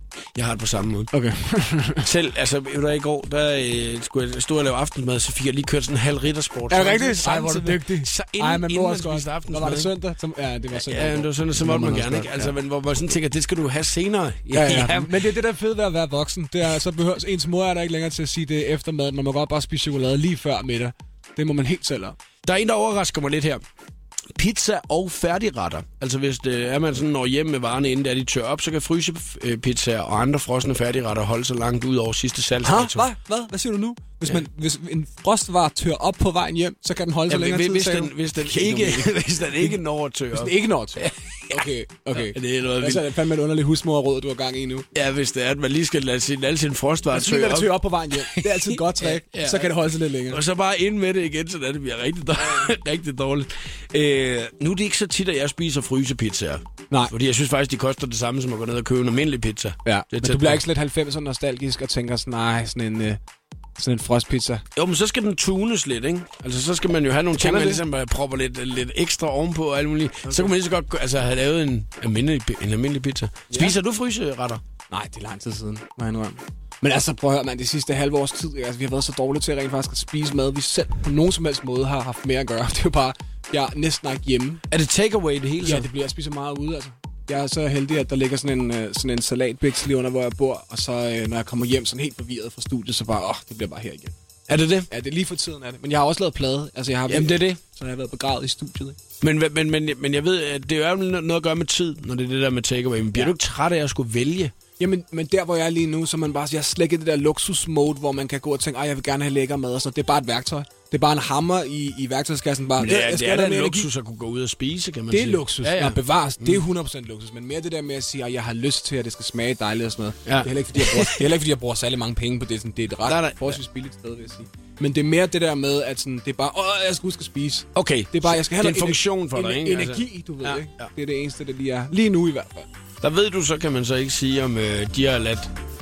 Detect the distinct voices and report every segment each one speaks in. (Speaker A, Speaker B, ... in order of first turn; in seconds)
Speaker A: 0.3-1.1, 2.0-9.9, 10.7-15.2, 22.4-23.6, 24.3-33.1, 37.3-43.0, 44.9-60.6, 64.8-74.6, 84.7-85.9, 94.5-94.9, 97.1-97.6, 99.2-104.5, 112.8-116.6, 120.2-121.3, 123.0-123.6, 127.8-130.9, 133.0-135.5
Speaker B: 1.1-2.1, 6.7-12.5, 14.5-22.1, 32.6-39.7, 40.3-44.9, 47.1-50.4, 52.4-52.7, 59.8-63.2, 63.8-64.6, 67.4-67.8, 70.2-70.5, 73.5-73.8, 74.9-84.6, 85.6-94.1, 94.9-99.0, 104.8-113.9, 115.1-132.7